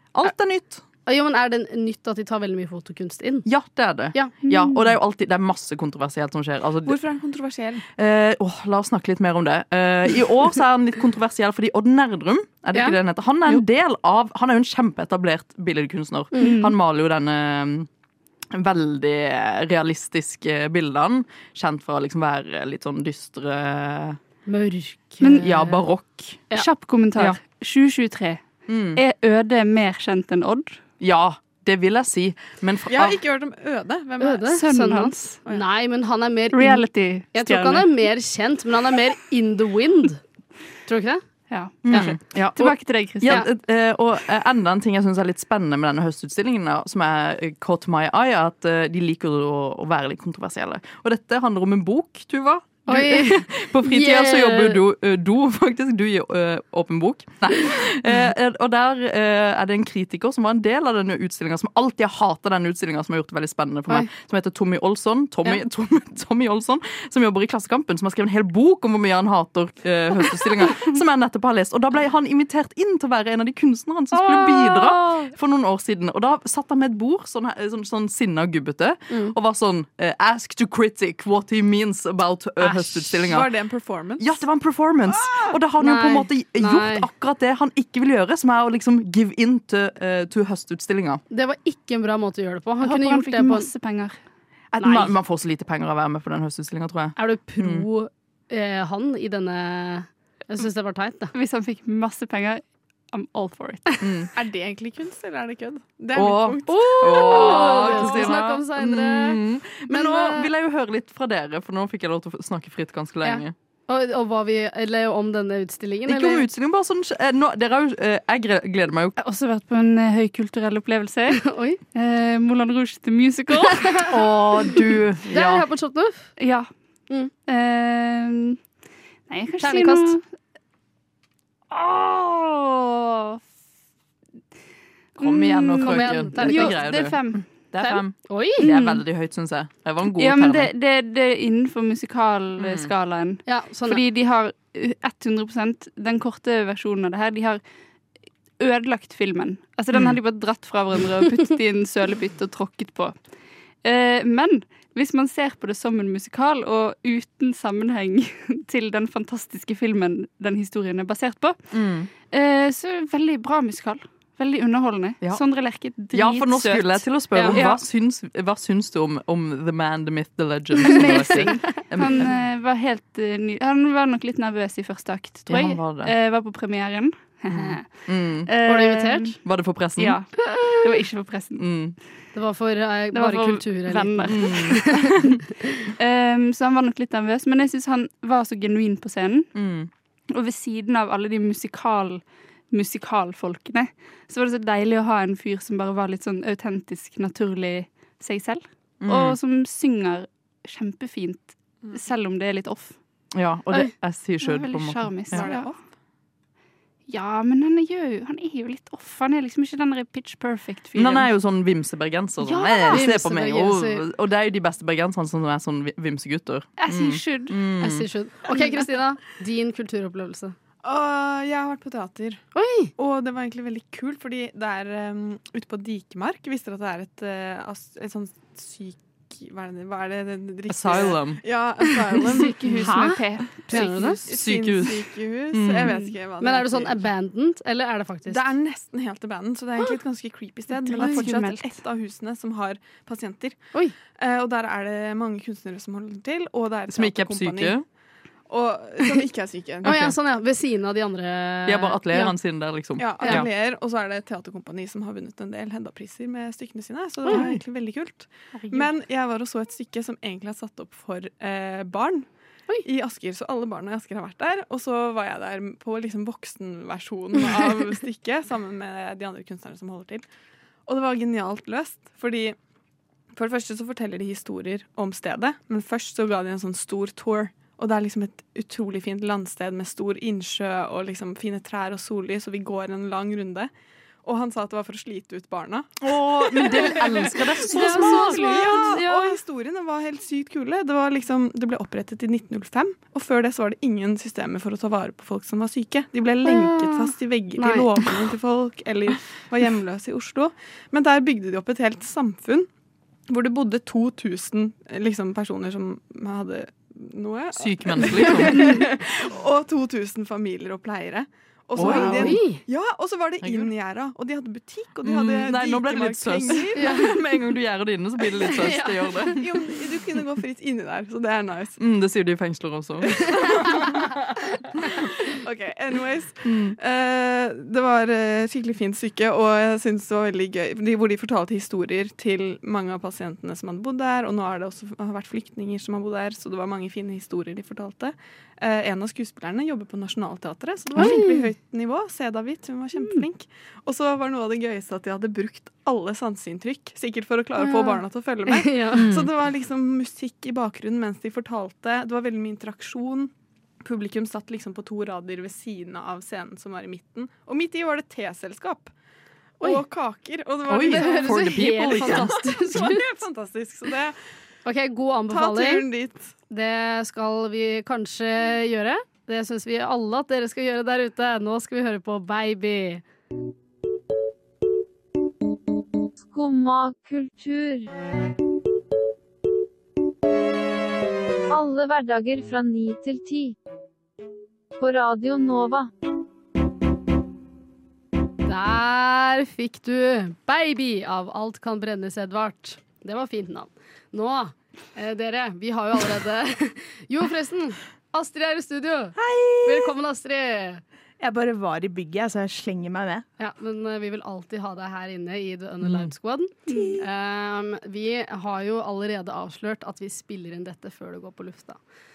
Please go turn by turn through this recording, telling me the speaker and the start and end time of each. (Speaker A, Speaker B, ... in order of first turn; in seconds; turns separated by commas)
Speaker A: 0.1-0.8, Speaker B: 1.1-3.5, Speaker A: 3.5-7.0, Speaker C: 6.8-7.9, Speaker A: 8.0-17.9, Speaker D: 16.4-16.7, Speaker A: 18.5-24.2, Speaker B: 24.5-25.8, Speaker A: 25.2-26.5, Speaker D: 26.5-30.8, Speaker A: 28.7-29.0, Speaker A: 31.0-33.2, Speaker C: 32.9-34.5, Speaker B: 34.2-40.2, Speaker D: 34.5-35.2, Speaker D: 36.5-37.9, Speaker B: 40.9-41.2, Speaker D: 41.5-43.4, Speaker A: 41.9-83.5, Speaker B: 41.9-42.1, Speaker B: 52.9-54.8, Speaker B: 82.6-83.2, Speaker C: 83.3-84.4, Speaker A: 84.2-91.2, Speaker B: 85.8-87.1, Speaker B: 91.3-93.7, Speaker D: 92.8-94.2, Speaker A: 94.7-97.9, Speaker B: 94.8-95.1, Speaker B: 97.2-101.3, Speaker D: 101.3-104.0, Speaker A: 104.0-104.3, Speaker C: 104.3-108.3, Speaker A: 106.1-113.5, Speaker B: 106.7-110.5, Speaker B: 113.2-116.5, Speaker A: 116.1-119.2, Speaker D: 119.2-124.1, Speaker B: 121.4-121.8, Speaker A: 124.1-125.6, Speaker B: 125.3-126.3, Speaker D: 126.4-126.7, Speaker D: 127.5-128.6, Speaker D: 129.3-130.2, Speaker B: 129.6-130.2, Speaker D: 131.7-133.4, Speaker D: 135.2-137.5, Speaker A: 135.2-140.7, Speaker B: 135.8-136.8, Speaker B: 137.8-138.7, Speaker D: 138.6-139.0, Speaker D: 140.1-147.6, Speaker A: 142.6-142.9, Speaker B: 143.5-144.0, Speaker D: 148.6-153.2, Speaker A: 149.9-150.2, Speaker D: 153.8-161.6, Speaker A: 161.7-162.1, Speaker D: 162.3-167.8, Speaker A: 166.1-172.3, Speaker D: 170.8-179.4, Speaker A: 175.5-176.1, Speaker A: 177.5-178.5, Speaker B: 178.7-179.4, Speaker A: 179.4-180.2, Speaker D: 180.0-181.7, Speaker B: 180.5-180.8, Speaker A: 181.6-182.0, Speaker B: 182.3-185.4, Speaker D: 183.1-184.9, Speaker A: 184.3-185.3, Speaker D: 186.0-189.5, Speaker A: 189.6-189.9, Speaker D: 190.3-203.0, Speaker A: 199.0-199.4, Speaker A: 203.3-205.5, Speaker D: 204.4-205.7, Speaker C: 205.3-205.8, Speaker D: 207.1-211.3, Speaker A: 210.9-218.1, Speaker D: 212.5-213.0, Speaker B: 212.6-214.1, Speaker D: 216.8-217.6, Speaker B: 217.8-220.6, Speaker C: 220.8-222.4, Speaker B: 222.6-222.9, Speaker C: 223.0-232.9, Speaker A: 230.7-231.4, Speaker D: 232.3-234.2, Speaker B: 232.8-234.2, Speaker C: 233.7-237.0, Speaker A: 233.8-236.0, Speaker B: 236.4-238.5, Speaker C: 238.3-243.6, Speaker D: 240.8-241.7, Speaker B: 240.9-241.2, Speaker C: 244.2-247.8, Speaker A: 246.9-247.8, Speaker C: 248.5-249.9, Speaker A: 249.8-250.2, Speaker B: 249.8-252.3, Speaker A: 251.7-253.5, Speaker C: 253.0-262.3, Speaker A: 257.3-257.6, Speaker C: 262.8-270.3, Speaker C: 270.9-272.6, Speaker C: 273.3-283.7, Speaker C: 284.2-285.9, Speaker A: 286.0-289.0, Speaker C: 286.6-302.7, Speaker D: 287.6-289.4, Speaker B: 296.4-298.1, Speaker C: 303.3-317.1, Speaker A: 307.5-308.8, Speaker A: 311.8-312.4, Speaker B: 311.8-312.6, Speaker A: 313.4-313.7, Speaker A: 315.0-319.8, Speaker B: 316.8-317.1, Speaker C: 318.4-321.8, Speaker A: 321.8-323.8, Speaker C: 323.1-324.1, Speaker C: 324.8-358.9, Speaker A: 326.4-326.8, Speaker B: 340.9-341.5, Speaker B: 347.6-349.1, Speaker A: 349.0-349.3, Speaker C: 359.6-364.2, Speaker A: 360.7-362.9, Speaker B: 360.7-363.2, Speaker B: 364.6-365.9, Speaker C: 365.3-366.3, Speaker B: 366.5-373.0, Speaker E: 376.2-377.9, Speaker E: 381.5-383.6, Speaker E: 384.8-385.9, Speaker B: 388.4-400.8, Speaker F: 399.2-399.9, Speaker F: 401.2-403.2, Speaker B: 403.4-411.8, Speaker A: 405.9-406.1, Speaker D: 406.7-407.0, Speaker F: 406.7-407.0